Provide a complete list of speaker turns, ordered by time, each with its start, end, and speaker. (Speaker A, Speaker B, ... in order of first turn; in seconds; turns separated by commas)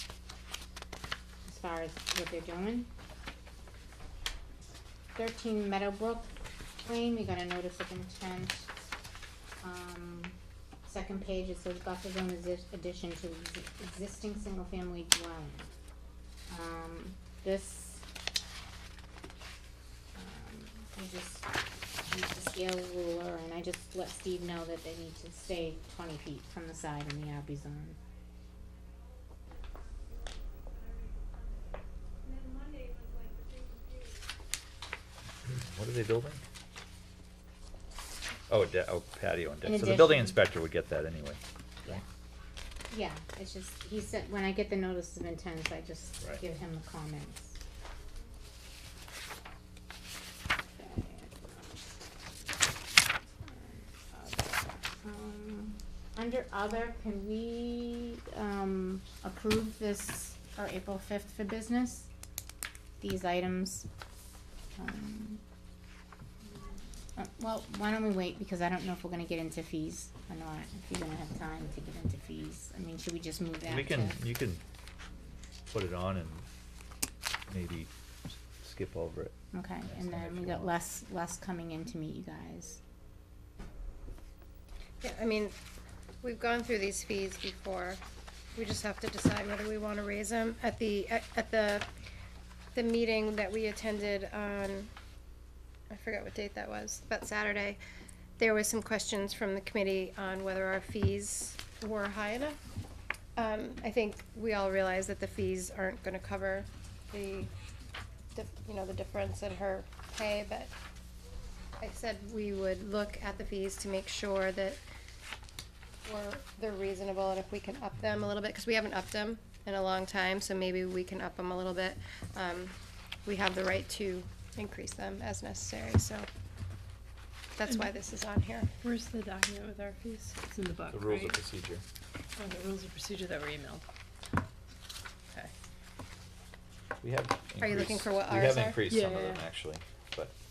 Speaker A: 1.5-2.9, Speaker A: 5.2-8.8, Speaker A: 9.6-15.7, Speaker A: 16.5-18.1, Speaker A: 20.1-21.5, Speaker A: 22.1-28.0, Speaker B: 35.5-36.4, Speaker B: 38.5-42.0, Speaker A: 39.6-40.4, Speaker A: 42.9-47.6, Speaker A: 50.7-51.8, Speaker A: 53.4-62.1, Speaker A: 63.0-63.9, Speaker A: 64.8-65.4, Speaker A: 67.2-74.2, Speaker B: 73.7-74.6, Speaker B: 75.7-76.5, Speaker B: 77.5-79.3, Speaker A: 79.5-82.8, Speaker B: 79.9-80.7, Speaker C: 85.0-85.5, Speaker C: 86.2-88.0, Speaker C: 88.5-91.9, Speaker C: 92.8-94.9, Speaker C: 95.9-97.8, Speaker C: 98.4-102.6, Speaker C: 103.4-107.5, Speaker C: 108.3-110.7, Speaker C: 111.8-114.8, Speaker C: 116.0-122.7, Speaker C: 123.2-126.3, Speaker C: 127.6-128.7, Speaker D: 128.8-131.4, Speaker B: 130.9-131.8, Speaker D: 132.4-133.8, Speaker B: 137.0-140.3, Speaker C: 137.6-138.8, Speaker D: 138.9-139.4